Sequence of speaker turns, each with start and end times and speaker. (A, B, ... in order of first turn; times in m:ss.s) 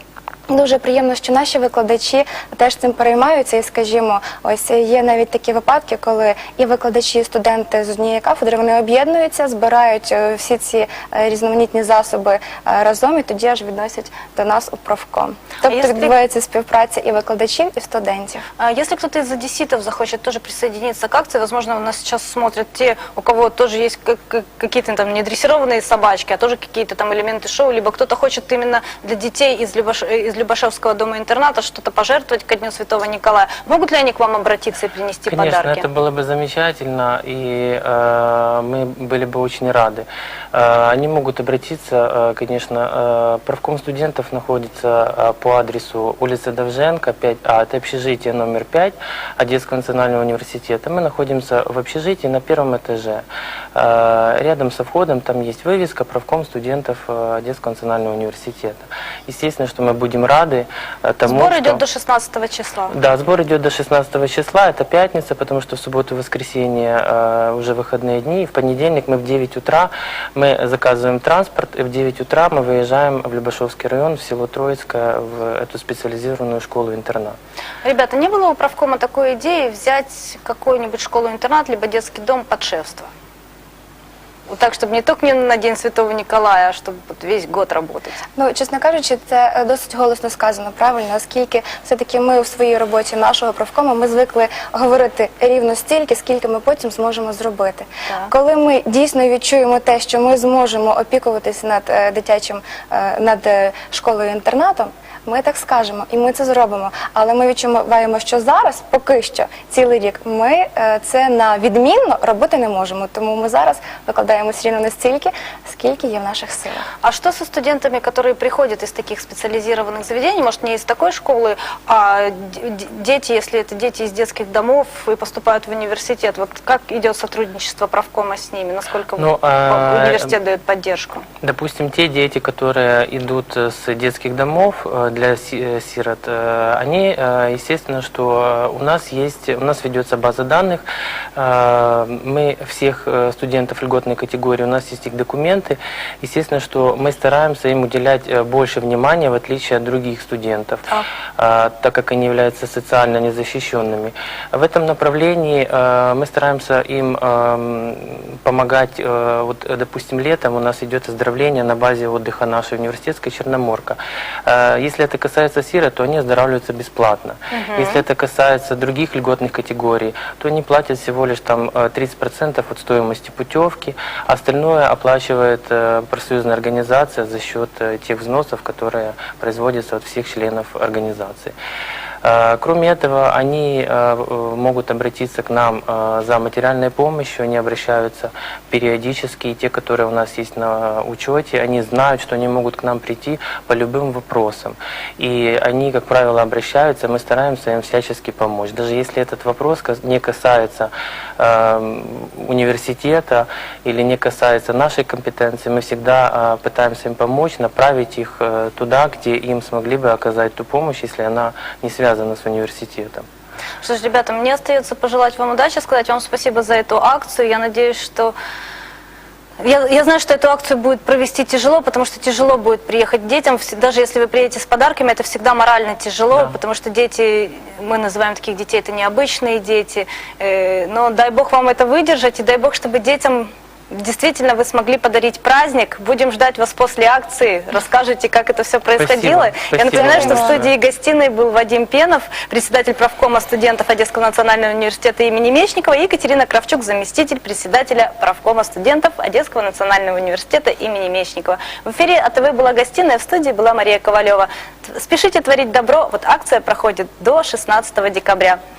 0:00.5-0:18.4 A
0:15.6-0:16.1 B
0:18.6-0:35.8 B
0:35.3-1:01.8 C
1:01.2-1:02.9 B
1:02.9-1:17.4 C
1:17.8-1:23.1 B
1:24.5-1:28.2 B
1:28.4-1:56.8 A
1:57.0-2:11.2 B
2:09.2-2:10.3 C
2:11.4-2:20.8 C
2:21.4-2:30.8 C
2:31.4-3:01.5 C
2:47.5-2:48.0 B
3:02.2-3:33.2 C
3:33.8-3:38.3 B
3:39.6-4:18.6 B
3:59.0-4:00.7 C
4:00.0-4:00.6 A